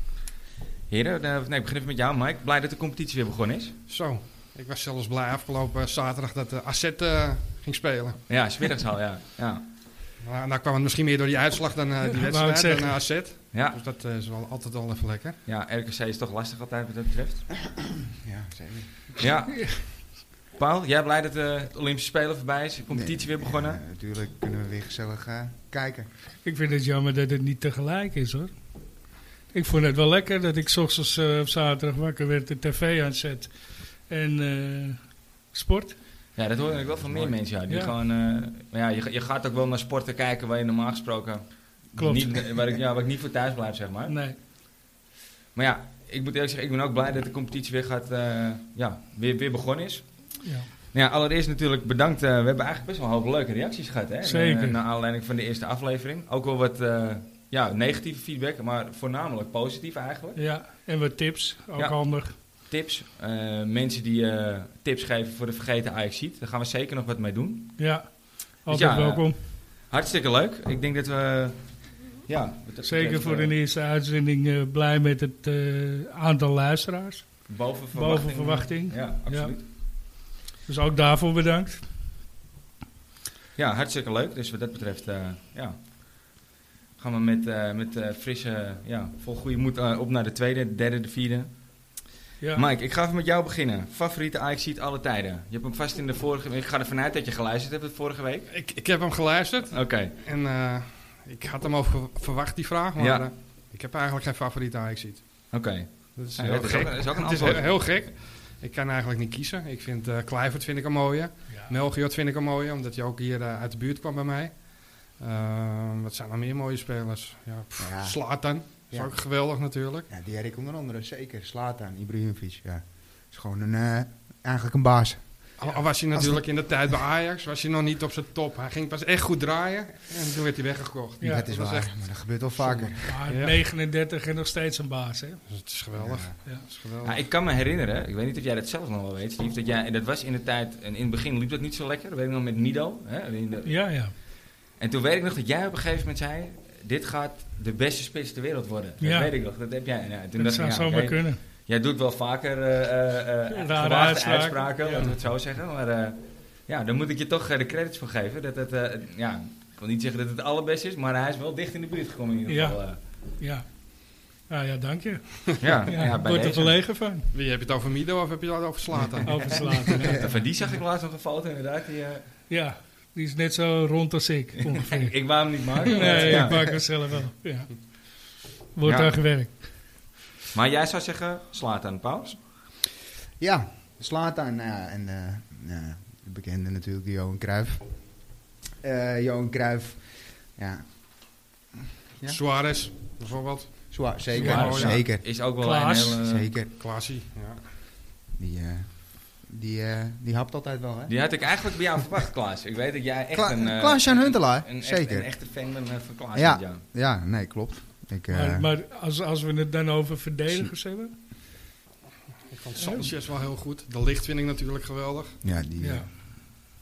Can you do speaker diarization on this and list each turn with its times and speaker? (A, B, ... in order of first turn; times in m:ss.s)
0:00.9-0:03.8 A
0:03.9-0:08.3 B
0:08.3-0:09.6 A
0:10.2-0:15.4 B
0:12.2-0:13.0 C
0:13.5-0:13.8 A
0:15.5-0:17.5 A
0:17.8-0:19.1 D
0:19.2-0:20.0 A
0:19.6-0:19.9 C
0:20.6-0:23.8 A
0:22.9-0:26.1 D
0:26.4-0:28.5 C
0:29.5-0:36.0 C
0:36.4-0:44.2 A
0:42.0-0:42.4 C
0:44.1-0:44.4 C
0:45.6-0:50.3 A
0:50.4-0:50.7 C
0:50.9-1:00.4 A
0:54.2-0:54.8 C
1:00.4-1:02.4 C
1:01.8-1:07.8 A
1:07.8-1:09.4 C
1:08.7-1:13.5 A
1:12.8-1:19.6 C
1:17.5-1:19.6 A
1:20.6-1:21.8 C
1:23.6-1:25.8 A
1:27.0-1:31.5 A
1:32.4-1:32.6 C
1:32.6-1:38.5 A
1:38.5-1:45.5 B
1:39.7-1:40.1 A
1:43.0-1:43.3 A
1:45.5-1:47.7 A
1:46.2-2:00.1 B
1:57.8-1:58.2 D
1:58.9-1:59.2 D
2:00.1-2:06.5 D
2:05.6-2:13.6 B
2:11.2-2:11.5 C
2:11.2-2:13.2 D
2:13.1-2:15.4 C
2:15.5-2:17.2 B
2:16.0-2:16.4 D
2:17.0-2:23.8 A
2:23.7-2:24.1 C
2:24.8-2:43.0 A
2:29.0-2:29.3 C
2:30.4-2:31.4 C
2:33.5-2:35.1 C
2:42.5-2:42.8 C
2:43.4-2:47.3 C
2:45.6-2:46.7 A
2:47.3-2:50.1 B
2:49.3-2:50.4 C
2:49.7-2:52.3 A
2:52.5-2:59.7 C
2:54.6-2:56.8 A
2:56.0-2:56.4 B
2:58.8-2:59.2 A
3:00.5-3:02.4 A
3:03.4-3:08.3 D
3:08.8-3:11.6 D
3:12.3-3:15.0 B
3:13.9-3:15.3 D
3:14.4-3:16.5 A
3:14.4-3:14.8 C
3:15.6-3:16.2 C
3:16.2-3:16.7 D
3:16.8-3:17.6 B
3:18.4-3:21.4 D
3:21.1-3:26.8 A
3:23.3-3:25.3 D
3:26.3-3:28.7 D
3:28.3-3:31.1 C
3:32.5-3:35.4 B
3:32.8-3:33.1 C
3:35.4-3:36.1 D
3:35.8-3:36.1 C